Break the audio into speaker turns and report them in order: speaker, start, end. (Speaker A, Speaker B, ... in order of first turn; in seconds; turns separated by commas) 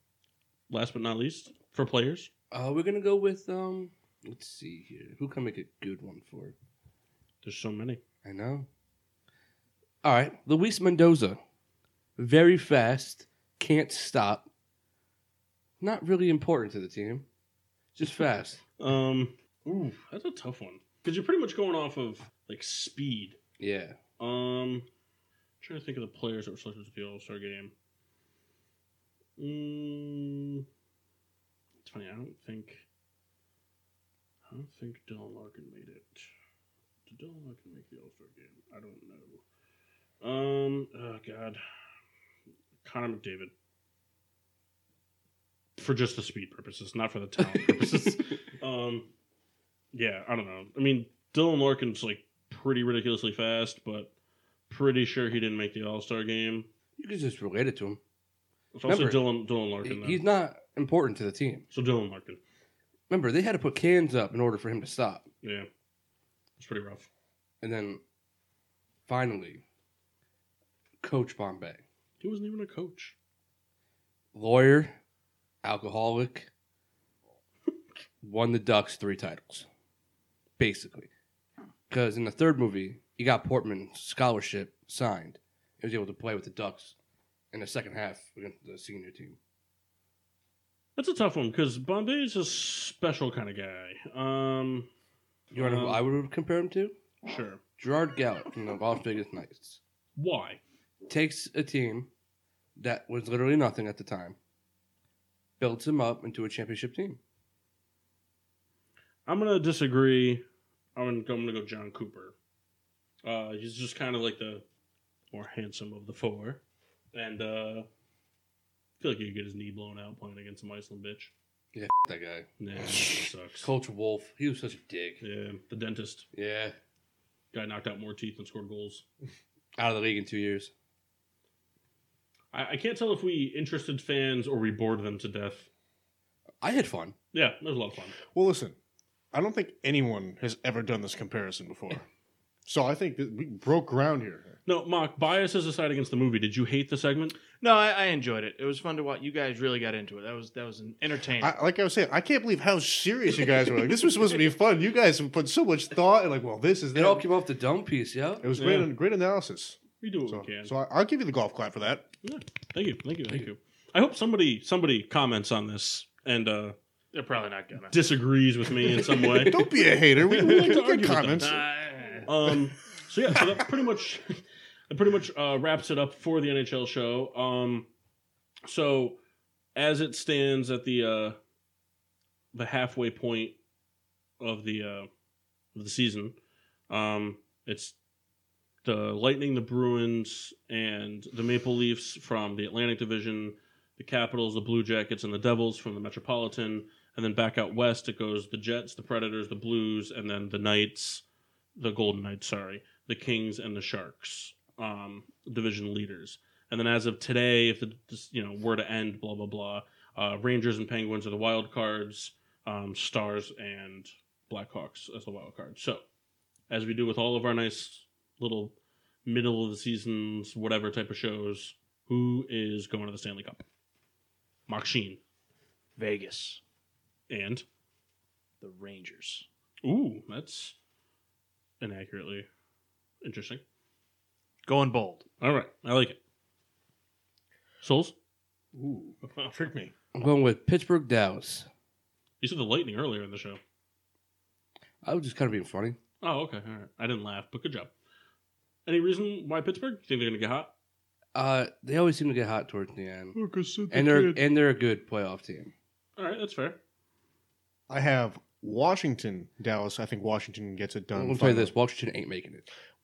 Speaker A: 0.7-2.3, Speaker B: 2.5-6.5, Speaker A: 7.4-8.0, Speaker B: 8.2-8.7, Speaker B: 10.0-11.4, Speaker B: 12.2-14.5, Speaker B: 15.8-17.2, Speaker B: 17.9-18.6, Speaker A: 18.8-23.4, Speaker B: 23.6-24.0, Speaker A: 24.2-24.9, Speaker A: 25.6-27.7, Speaker A: 29.4-30.6, Speaker A: 31.8-32.8, Speaker A: 34.5-36.2, Speaker A: 37.1-39.4, Speaker A: 40.2-41.6, Speaker A: 42.8-43.5, Speaker A: 45.8-49.1, Speaker A: 49.9-54.1, Speaker A: 54.7-56.7, Speaker B: 57.0-58.0, Speaker A: 58.7-60.2, Speaker B: 58.9-59.2, Speaker B: 59.8-61.6, Speaker A: 61.7-62.4, Speaker B: 63.1-65.3, Speaker A: 65.4-65.7, Speaker A: 66.6-67.1, Speaker B: 67.6-68.0, Speaker B: 69.1-69.6, Speaker B: 71.0-71.8, Speaker A: 72.2-73.1, Speaker B: 74.3-75.0, Speaker B: 75.6-76.5, Speaker B: 78.2-79.7, Speaker B: 80.6-81.1, Speaker B: 81.9-86.9, Speaker B: 87.5-89.4, Speaker A: 91.0-94.9, Speaker B: 95.5-96.9, Speaker A: 95.5-96.0, Speaker A: 97.2-97.6, Speaker B: 97.8-99.8, Speaker A: 100.2-100.6, Speaker B: 101.1-102.1, Speaker B: 102.8-104.4, Speaker B: 105.6-107.2, Speaker A: 109.2-110.4, Speaker A: 111.0-112.3, Speaker A: 113.2-114.6, Speaker A: 115.3-116.6, Speaker A: 117.1-117.9, Speaker A: 119.0-121.3, Speaker B: 121.7-125.2, Speaker A: 122.6-123.7, Speaker A: 125.2-126.3, Speaker B: 126.3-126.8, Speaker A: 127.5-129.0, Speaker B: 129.8-130.7, Speaker A: 132.5-135.7, Speaker B: 136.6-137.2, Speaker A: 137.3-138.2, Speaker C: 138.3-138.8, Speaker C: 139.3-142.1, Speaker C: 142.7-144.6, Speaker A: 144.7-147.4, Speaker D: 147.6-151.5, Speaker C: 151.4-157.3, Speaker B: 156.9-158.5, Speaker C: 158.4-162.1, Speaker A: 158.6-158.9, Speaker A: 160.0-160.7, Speaker A: 162.2-166.8, Speaker D: 167.1-168.0, Speaker A: 167.9-171.6, Speaker D: 168.9-169.5, Speaker C: 169.3-171.6, Speaker D: 171.4-172.3, Speaker A: 172.2-177.9, Speaker A: 178.6-179.2, Speaker A: 179.7-181.4, Speaker A: 182.5-183.6, Speaker A: 184.4-185.1, Speaker A: 185.7-186.3, Speaker A: 186.9-187.9, Speaker A: 188.8-201.2, Speaker A: 201.8-216.0, Speaker A: 216.7-218.7, Speaker A: 219.2-223.6, Speaker A: 224.7-225.2, Speaker D: 226.0-226.6, Speaker A: 227.3-227.6, Speaker D: 228.6-229.4, Speaker A: 229.8-230.7, Speaker A: 231.8-232.5, Speaker A: 233.2-233.6, Speaker D: 234.7-235.2, Speaker A: 235.4-236.2, Speaker A: 237.8-238.1, Speaker C: 238.7-239.9, Speaker B: 240.1-241.7, Speaker A: 242.4-243.6, Speaker B: 245.0-246.0, Speaker A: 246.2-247.9, Speaker A: 248.8-250.7, Speaker B: 251.3-253.3, Speaker C: 253.3-254.4, Speaker B: 253.9-255.7, Speaker A: 256.2-256.8, Speaker C: 257.9-261.7, Speaker B: 261.1-262.6